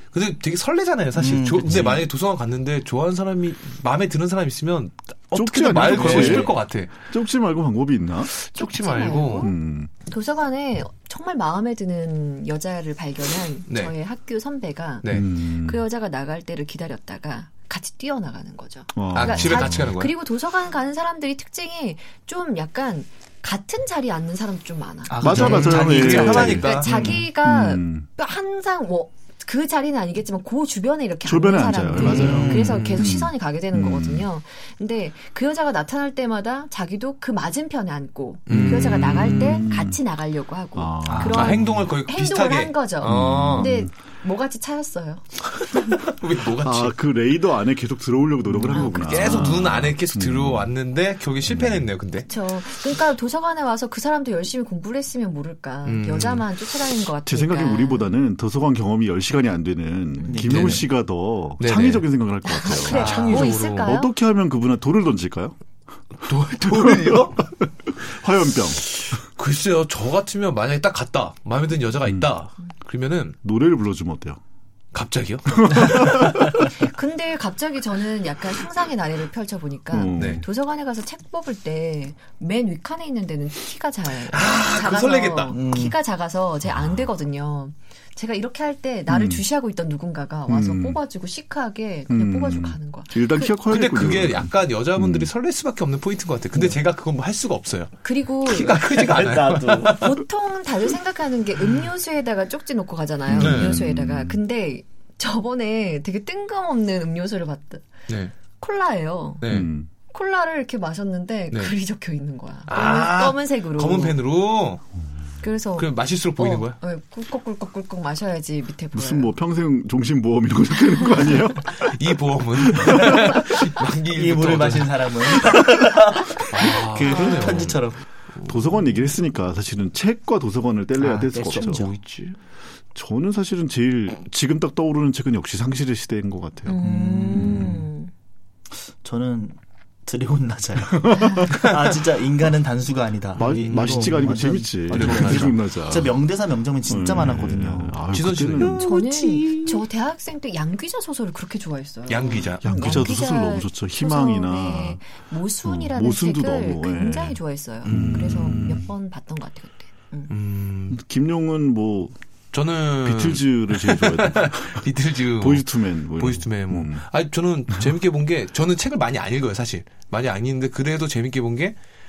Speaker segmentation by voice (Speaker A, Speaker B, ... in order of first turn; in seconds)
Speaker A: 0.1-7.0, 8.3-9.5, 13.7-13.9, 15.0-15.3, 19.1-20.1, 25.2-27.2, 32.0-33.1, 38.5-39.6, 41.2-43.7, 45.7-46.9, 48.5-52.3, 55.9-56.5, 60.3-60.9, 61.6-62.1, 62.7-63.9, 66.2-67.5, 69.0-73.4, 74.9-76.5, 80.2-80.4, 84.1-85.6, 93.7-100.1, 103.3-103.8, 108.1-108.3, 109.4-109.7, 112.7-114.8, 115.8-116.8, 121.7-125.5, 126.4-127.8, 128.4-128.8, 131.5-132.4, 143.4-145.7, 148.1-148.9, 152.1-153.1, 157.8-158.8, 160.3-161.0, 162.5-171.8
Speaker B: 1.2-2.1, 25.1-26.9, 32.0-33.0, 41.1-41.5, 60.3-60.9, 85.5-86.0, 98.7-100.0, 124.1-128.0, 131.0-131.9, 136.8-137.8, 138.7-141.0, 141.5-148.0
Speaker C: 5.3-8.3, 9.4-9.9, 15.1-15.9, 18.9-19.9, 25.2-28.1, 31.2-34.3, 38.5-40.0, 40.8-41.7, 43.0-43.9, 46.6-50.7, 51.5-51.9, 57.3-65.5, 66.7-68.9, 72.0-72.3, 73.4-74.4, 76.0-76.3, 79.9-80.5, 89.1-89.5, 90.5-91.0, 92.1-95.3, 103.3-104.4, 109.5-109.9, 118.9-121.9, 122.6-123.5, 128.4-131.9, 132.9-137.8, 140.8-141.6, 143.4-146.3, 146.8-148.9, 152.6-158.9, 160.9-162.2, 163.0-167.1
Speaker D: 5.9-6.4, 8.6-9.5, 10.1-25.6, 26.3-45.8, 48.7-49.5, 52.2-58.1, 62.5-64.1, 76.6-93.5, 98.0-98.8, 99.8-107.9, 108.6-109.4, 110.1-114.2, 115.4-119.4, 127.1-127.7, 136.7-138.1, 141.1-141.5, 148.8-160.3